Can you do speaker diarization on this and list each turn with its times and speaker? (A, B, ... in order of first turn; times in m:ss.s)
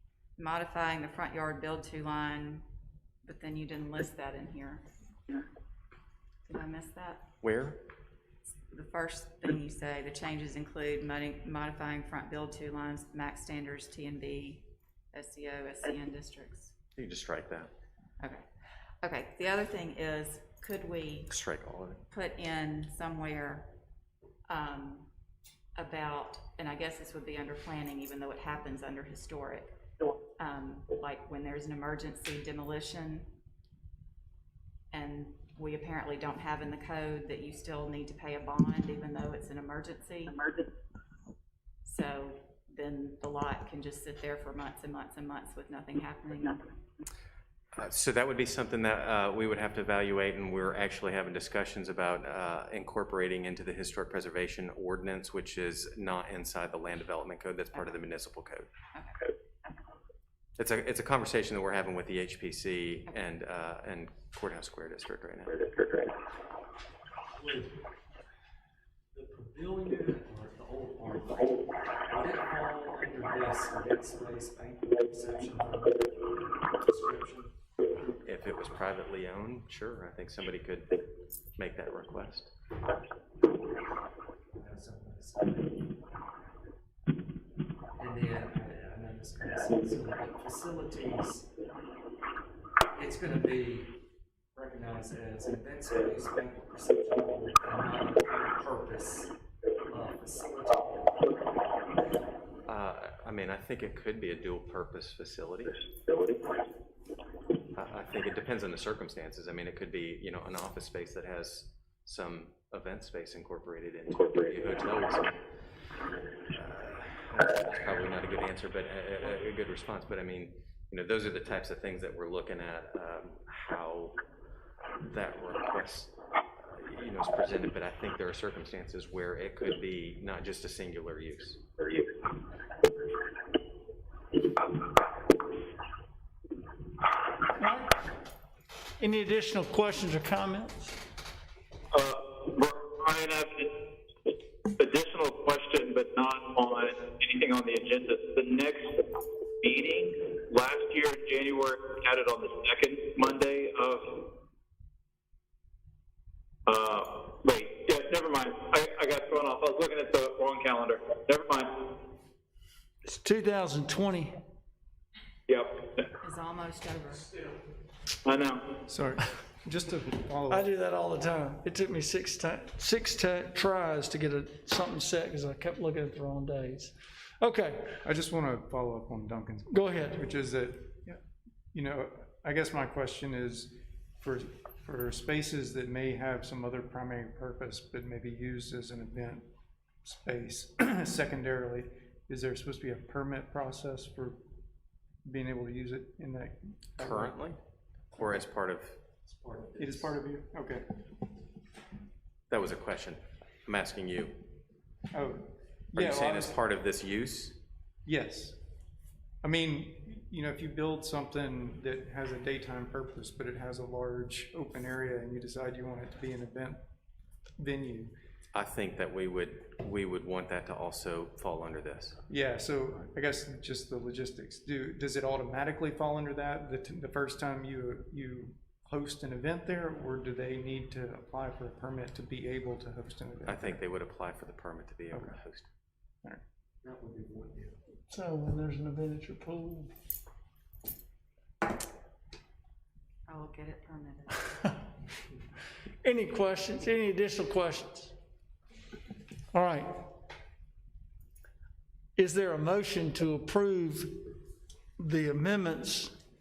0:00.4-0:02.6 A
0:03.2-0:04.8 A
0:06.5-0:07.3 A
0:07.4-0:07.8 B
0:08.7-0:16.7 A
0:17.0-0:17.7 B
0:19.0-0:21.4 A
0:21.3-0:22.0 B
0:22.1-0:23.7 A
0:24.5-0:25.1 A
0:25.8-0:29.7 A
0:30.4-0:33.3 A
0:34.9-0:40.4 A
0:41.8-0:46.6 A
0:47.8-0:58.7 B
0:58.9-0:59.2 A
1:00.6-1:05.6 B
1:07.4-1:07.7 C
1:09.1-1:16.1 C
1:16.7-1:17.5 C
1:18.2-1:21.0 B
1:21.6-1:22.5 B
1:24.5-1:25.7 C
1:28.0-1:31.5 C
1:33.0-1:34.0 C
1:34.6-1:39.3 C
1:39.9-1:41.3 C
1:42.7-1:45.8 B
1:47.8-1:55.4 B
1:56.5-2:04.2 B
2:05.0-2:11.6 B
2:17.6-2:18.0 D
2:19.0-2:21.0 D
2:21.9-2:23.7 E
2:24.8-2:29.0 E
2:29.6-2:34.1 E
2:36.7-2:41.8 E
2:43.0-2:44.4 D
2:45.5-2:46.0 E
2:46.2-2:47.3 A
2:48.2-2:48.7 E
2:48.9-2:50.7 F
2:50.5-2:58.0 D
2:58.0-3:01.2 F
2:59.7-3:00.2 D
3:01.7-3:09.5 F
3:10.0-3:14.4 F
3:15.2-3:17.4 F
3:17.0-3:17.6 B
3:18.1-3:19.0 B
3:19.3-3:20.2 C
3:19.8-3:20.8 F
3:22.5-3:24.4 B
3:25.1-3:26.6 F
3:26.0-3:27.6 B
3:28.1-3:28.6 F
3:29.4-3:36.8 F
3:37.6-3:38.1 F
3:38.5-3:42.2 B
3:42.3-3:53.8 F
3:53.5-3:55.7 B
3:56.8-3:57.8 C
3:58.1-3:59.9 D
4:03.3-4:04.6 A
4:06.0-4:08.1 D
4:09.5-4:10.0 D
4:12.2-4:14.2 D
4:15.0-4:16.2 D